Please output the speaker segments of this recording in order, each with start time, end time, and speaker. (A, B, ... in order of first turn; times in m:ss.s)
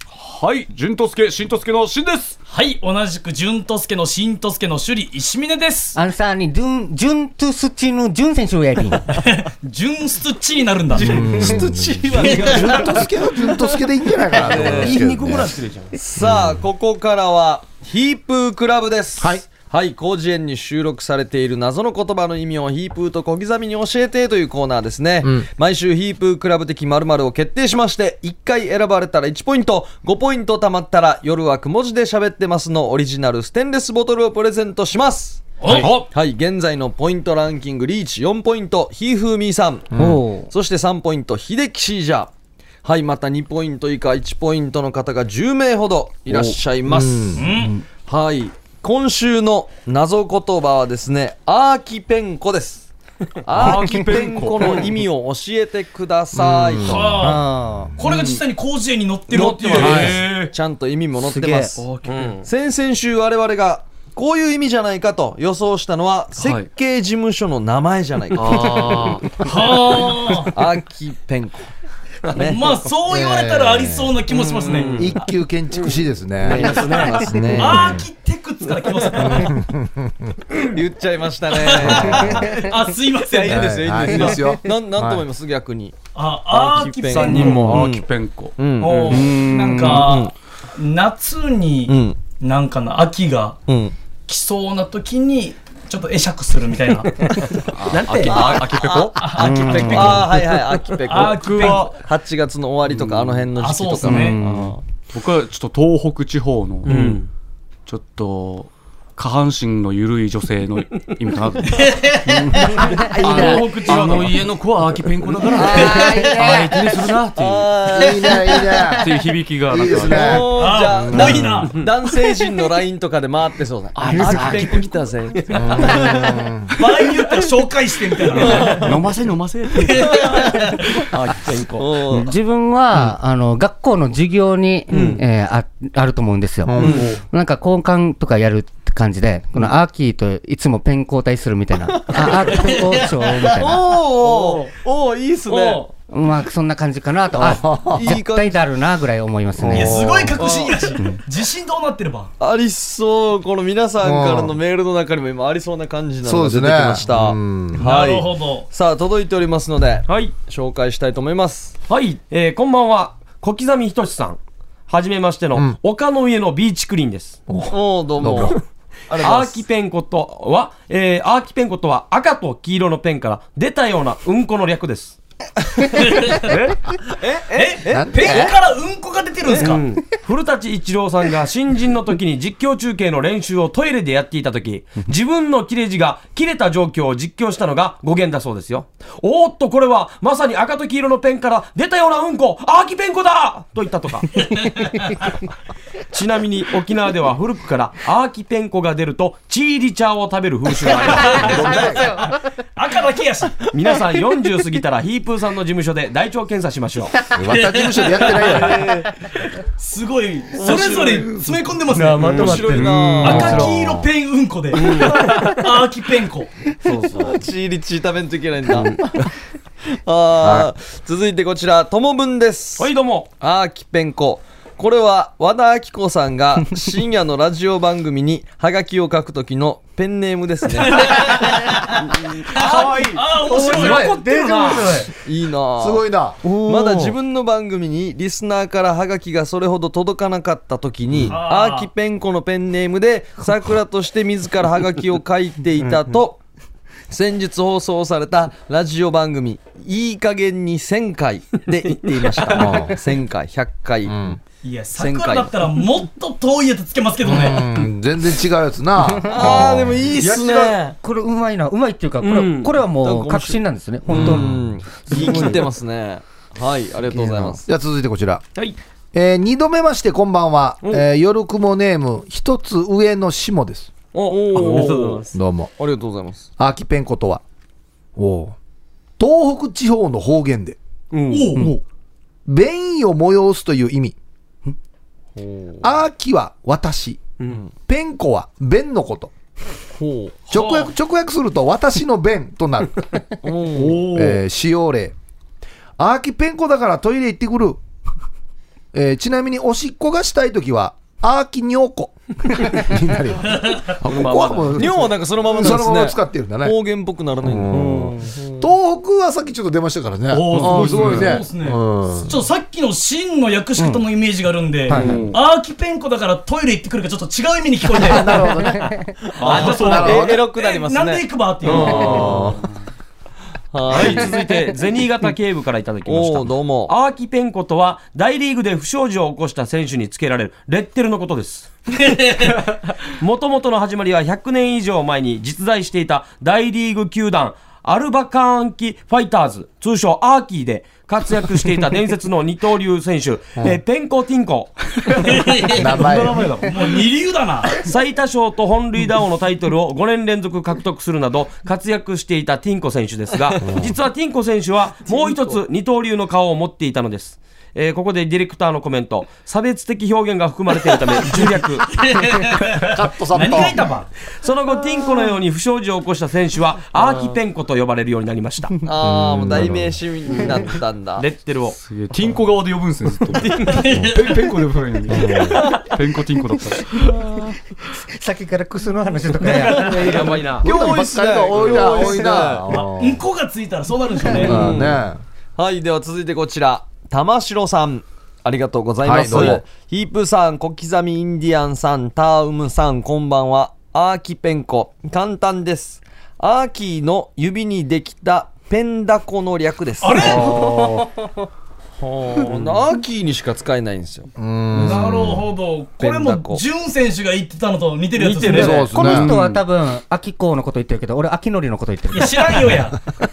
0:00.1-0:02.4 A
0:02.5-0:06.0 B
0:06.0-0:09.1 C
0:09.1-0:11.2 B
0:10.9-0:13.1 D
0:11.0-0:15.6 E
0:12.3-0:12.8 B
0:14.4-0:15.0 D
0:14.4-0:16.0 F
0:15.9-0:39.9 D
0:16.2-0:16.6 E
0:19.2-0:19.4 E
0:25.2-0:25.5 E
0:35.6-0:36.0 B
0:35.7-0:36.1 A
0:39.9-0:40.2 E
0:40.0-0:40.5 C
0:40.5-0:42.3 D
0:42.8-0:47.4 D
0:46.3-0:47.7 E
0:47.4-0:47.8 B
0:48.1-0:52.9 D
0:53.4-0:57.2 D
0:53.6-0:55.0 A
0:56.3-0:57.4 E
0:56.8-0:57.5 B
0:57.2-0:57.9 C
0:58.0-1:00.2 B
0:58.0-0:58.4 A
0:59.3-1:01.9 D
0:59.7-1:00.5 A
1:01.2-1:01.8 C
1:01.8-1:02.4 A
1:02.0-1:02.4 F
1:02.4-1:09.2 D
1:06.4-1:06.7 A
1:08.4-1:08.7 F
1:08.4-1:09.4 A
1:09.4-1:10.5 B
1:10.5-1:11.7 D
1:12.3-1:12.7 D
1:12.3-1:15.1 B
1:13.1-1:14.2 E
1:14.6-1:15.2 F
1:15.0-1:18.0 E
1:15.8-1:17.4 F
1:16.4-1:18.0 D
1:17.6-1:19.6 B
1:19.1-1:20.4 E
1:20.7-1:22.6 D
1:21.5-1:23.8 B
1:21.8-1:22.5 E
1:23.3-1:26.0 D
1:23.5-1:25.2 E
1:26.2-1:27.7 B
1:26.5-1:30.3 D
1:27.1-1:30.2 A
1:28.8-1:33.6 B
1:31.9-1:32.2 D
1:33.7-1:33.9 D
1:34.3-1:37.1 B
1:37.7-1:40.4 A
1:37.9-1:39.1 F
1:38.2-1:44.8 D
1:39.2-1:40.3 B
1:39.8-1:40.0 C
1:41.1-1:42.0 B
1:41.1-1:42.0 A
1:42.9-1:43.5 A
1:43.6-1:44.4 B
1:44.1-1:44.7 C
1:45.1-1:47.3 A
1:46.8-1:47.3 F
1:47.9-1:57.8 A
1:51.7-1:52.2 B
1:52.4-1:53.6 C
1:53.2-1:53.6 E
1:53.4-1:54.2 B
1:53.4-1:54.4 F
1:55.5-1:56.6 D
1:55.8-1:56.8 C
1:57.3-1:58.6 D
1:57.9-2:01.7 E
1:59.0-2:00.5 A
1:59.9-2:06.4 D
2:00.6-2:01.7 B
2:04.0-2:05.2 A
2:05.6-2:06.7 E
2:06.8-2:08.9 B
2:08.3-2:09.0 D
2:08.4-2:10.3 A
2:09.8-2:10.6 B
2:10.0-2:10.4 D
2:11.0-2:12.0 F
2:11.8-2:12.3 D
2:12.1-2:24.0 C
2:14.9-2:15.2 D
2:16.6-2:17.1 E
2:16.8-2:17.2 D
2:16.8-2:17.1 F
2:22.1-2:22.7 D
2:23.3-2:25.9 D
2:24.2-2:24.7 F
2:25.5-2:25.9 F
2:26.1-2:30.0 C
2:27.4-2:28.2 E
2:27.4-2:28.6 D
2:29.6-2:30.4 E
2:29.7-2:32.3 B
2:30.4-2:31.0 D
2:32.4-2:41.8 D
2:34.0-2:34.6 E
2:36.2-2:37.8 E
2:37.7-2:38.7 B
2:40.1-2:40.4 F
2:41.9-2:47.4 F
2:47.5-2:48.6 E
2:47.7-2:49.6 D
2:49.2-2:55.2 F
2:56.1-2:56.4 B
2:56.5-2:56.8 A
2:57.1-2:58.6 D
2:57.6-2:59.8 B
2:57.9-2:58.5 E
2:59.5-3:14.8 F
3:16.1-3:22.2 F
3:21.2-3:23.6 B
3:21.4-3:22.1 E
3:23.7-3:27.2 F
3:27.3-3:28.9 E
3:27.5-3:28.4 B
3:28.3-3:29.1 D
3:29.8-3:32.6 B
3:30.6-3:31.3 D
3:30.7-3:31.5 E
3:32.1-3:32.9 F
3:32.1-3:33.7 A
3:32.2-3:33.7 D
3:33.2-3:36.5 B
3:33.3-3:34.1 E
3:34.7-3:35.6 F
3:36.8-3:37.4 F
3:37.1-3:39.3 D
3:38.7-3:39.2 F
3:39.9-3:51.5 D
3:42.8-3:43.3 F
3:50.8-3:51.8 B
3:52.5-3:55.0 B
3:52.5-3:54.2 A
3:52.6-3:55.1 F
3:55.2-4:06.4 D
3:55.8-3:56.4 E
4:01.3-4:01.9 B
4:07.1-4:14.2 D
4:11.9-4:12.8 F
4:12.5-4:13.0 E
4:14.1-4:14.4 E
4:14.6-4:17.6 B
4:15.0-4:15.6 D
4:17.2-4:20.8 E
4:19.2-4:21.0 D
4:21.0-4:25.6 C
4:22.2-4:22.8 F
4:23.0-4:27.7 D
4:24.1-4:24.7 E
4:25.3-4:25.6 F
4:27.1-4:27.6 C
4:27.7-4:28.4 E
4:29.1-4:33.9 E
4:34.1-4:35.4 F
4:34.3-4:36.5 D
4:34.7-4:35.7 E
4:36.6-4:37.4 E
4:38.2-4:38.6 E
4:39.2-4:40.8 E
4:41.1-4:41.7 F
4:41.3-4:41.7 B
4:42.5-4:44.2 E
4:45.4-4:45.9 D
4:45.8-4:47.2 E
4:47.8-4:49.3 E
4:50.0-4:50.5 D
4:50.5-4:53.0 E
4:50.6-4:50.9 B
4:53.4-4:54.1 D
4:53.8-4:54.4 A
4:54.0-4:55.2 E
4:56.0-4:57.8 E
4:58.9-5:06.8 E
5:04.0-5:04.9 F
5:04.8-5:08.7 D
5:07.4-5:12.4 E
5:10.3-5:11.4 A
5:10.5-5:10.9 C
5:10.6-5:18.5 B
5:13.8-5:14.0 C
5:14.9-5:15.2 C
5:14.9-5:15.4 A
5:18.0-5:20.4 E
5:18.5-5:19.0 C
5:19.3-5:22.4 D
5:19.4-5:20.1 A
5:19.4-5:20.2 F
5:19.4-5:22.3 B
5:21.7-5:22.6 E
5:21.8-5:22.2 F
5:23.7-5:24.4 D
5:23.9-5:45.5 F
5:26.0-5:26.9 D
5:45.2-5:46.0 B
5:45.6-5:46.7 A
5:45.8-5:46.6 E
5:46.6-5:47.8 B
5:47.8-6:02.1 F
5:53.6-5:54.0 E
6:02.0-6:02.7 B
6:02.7-6:03.8 E
6:03.3-6:04.1 B
6:04.4-6:08.8 F
6:08.8-6:11.3 D
6:09.0-6:10.0 E
6:11.2-6:11.8 F
6:11.7-6:17.1 A
6:13.6-6:14.5 B
6:15.1-6:15.6 E
6:17.9-6:20.1 C
6:19.4-6:20.7 F
6:19.8-6:22.7 D
6:20.6-6:23.2 E
6:22.7-6:24.7 B
6:24.3-6:25.2 E
6:24.3-6:25.0 D
6:25.6-6:40.7 D
6:29.0-6:29.6 E
6:40.0-6:40.7 B
6:40.4-6:41.0 A
6:42.0-6:44.3 D
6:44.4-6:45.4 E
6:44.8-6:48.8 B
6:46.0-6:46.6 D
6:48.2-6:48.9 F
6:48.5-6:49.3 E
6:48.9-6:52.9 C
6:49.0-6:49.6 A
6:52.1-6:53.0 B